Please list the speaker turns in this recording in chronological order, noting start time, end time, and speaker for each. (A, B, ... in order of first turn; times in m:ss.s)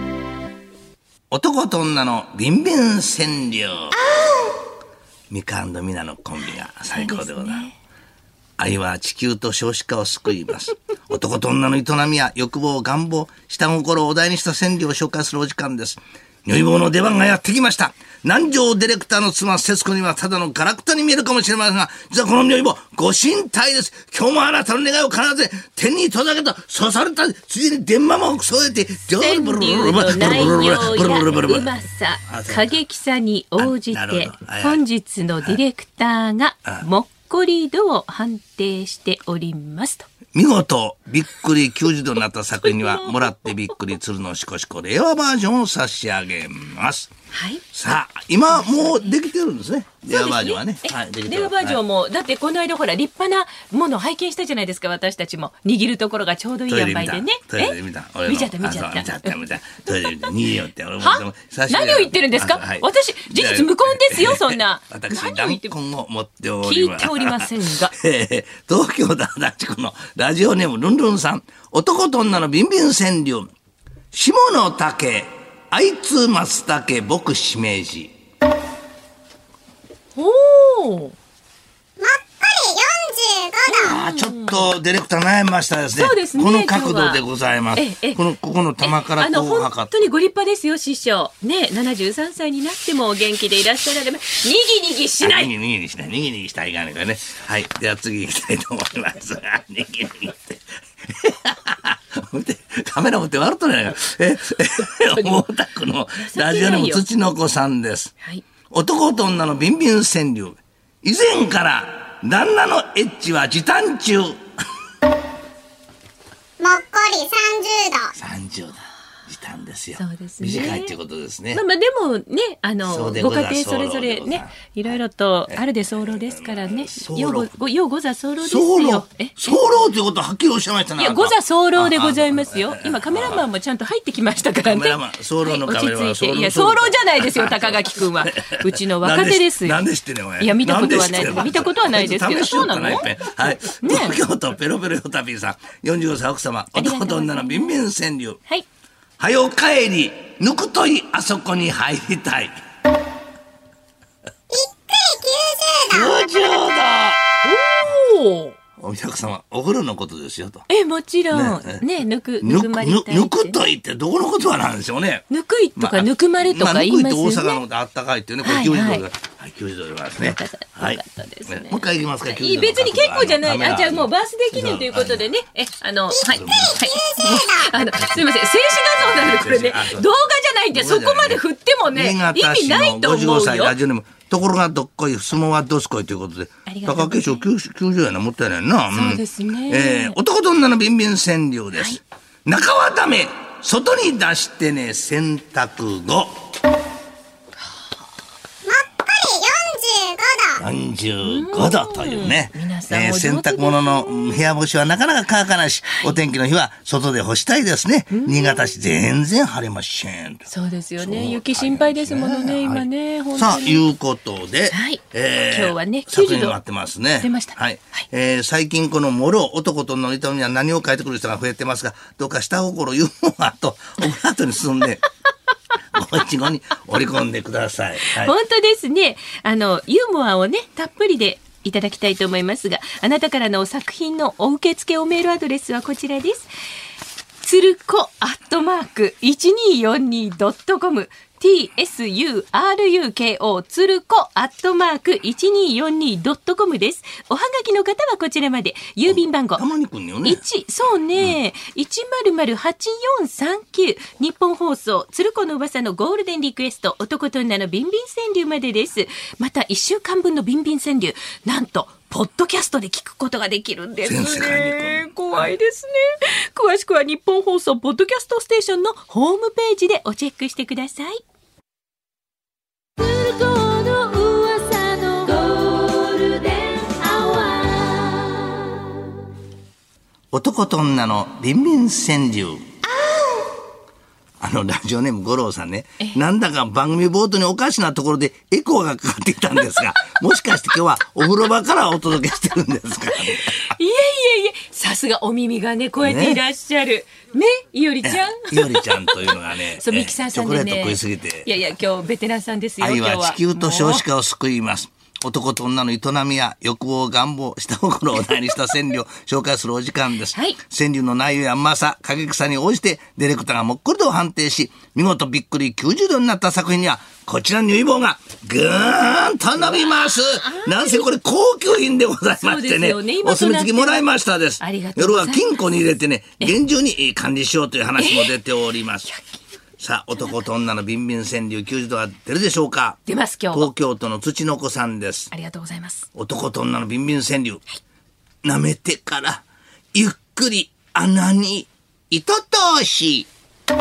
0:01.3-0:04.0 A
0:03.9-0:04.6 B
0:05.3-0:07.7 A
0:06.9-0:07.8 B
0:08.6-0:31.7 A
0:29.1-0:40.1 B
0:32.3-0:32.8 A
0:33.6-0:34.8 A
0:40.3-0:47.1 A
0:42.6-0:43.6 B
0:47.3-0:47.6 B
0:47.7-0:51.8 A
0:48.5-0:49.2 B
0:50.1-1:00.3 B
0:56.7-1:13.5 A
1:01.0-1:05.7 B
1:06.6-1:07.9 B
1:14.1-1:18.2 A
1:20.2-1:21.2 B
1:22.0-1:23.6 C
1:23.7-1:24.7 B
1:23.8-1:29.9 A
1:26.0-1:27.2 B
1:27.8-1:28.2 B
1:28.8-1:35.5 B
1:35.2-1:48.1 A
1:45.0-1:45.4 B
1:46.2-1:47.0 B
1:48.7-1:54.4 A
1:56.6-1:58.1 C
1:58.2-2:01.6 A
2:00.0-2:01.0 B
2:01.5-2:09.6 B
2:02.8-2:05.0 A
2:05.5-2:07.5 A
2:08.4-2:13.4 A
2:11.0-2:19.8 B
2:14.6-2:28.4 A
2:20.4-2:23.1 B
2:23.6-2:24.2 B
2:26.8-2:27.8 B
2:29.2-2:32.6 A
2:34.5-2:36.1 C
2:35.9-2:37.2 A
2:37.4-2:38.6 B
2:38.8-2:40.7 A
2:40.7-2:43.6 B
2:41.3-2:41.8 A
2:42.4-2:55.3 A
2:45.3-2:47.6 B
2:48.4-2:49.1 B
2:50.2-3:03.8 B
2:56.2-2:57.7 C
2:56.3-2:56.9 A
2:57.8-2:58.2 A
2:59.0-3:00.1 A
3:00.7-3:16.4 A
3:06.7-3:07.5 B
3:08.9-3:10.2 B
3:11.7-3:12.0 B
3:18.7-3:20.6 C
3:20.6-3:30.5 A
3:21.2-3:24.5 B
3:25.9-3:26.2 B
3:28.1-3:28.8 B
3:30.5-3:33.8 B
3:31.0-3:45.0 A
3:34.7-3:36.6 B
3:37.2-3:38.0 B
3:45.9-3:48.3 A
3:48.0-3:56.5 B
3:57.4-4:09.6 B
4:09.1-4:10.4 A
4:10.2-4:31.2 B
4:24.0-4:25.1 A
4:33.0-4:38.9 B
4:40.3-4:42.6 A
4:42.9-4:43.5 B
4:44.4-4:53.7 A
4:53.1-5:04.0 B
4:56.0-4:56.4 A
4:58.0-5:01.5 A
5:02.8-5:29.1 A
5:10.3-5:10.6 B
5:19.9-5:21.0 B
5:22.4-5:24.1 B
5:24.6-5:25.6 B
5:28.0-5:28.4 B
5:29.8-5:33.0 A
5:33.1-5:33.7 B
5:33.5-5:35.3 A
5:35.3-5:36.1 B
5:36.2-5:37.6 A
5:38.4-5:43.3 A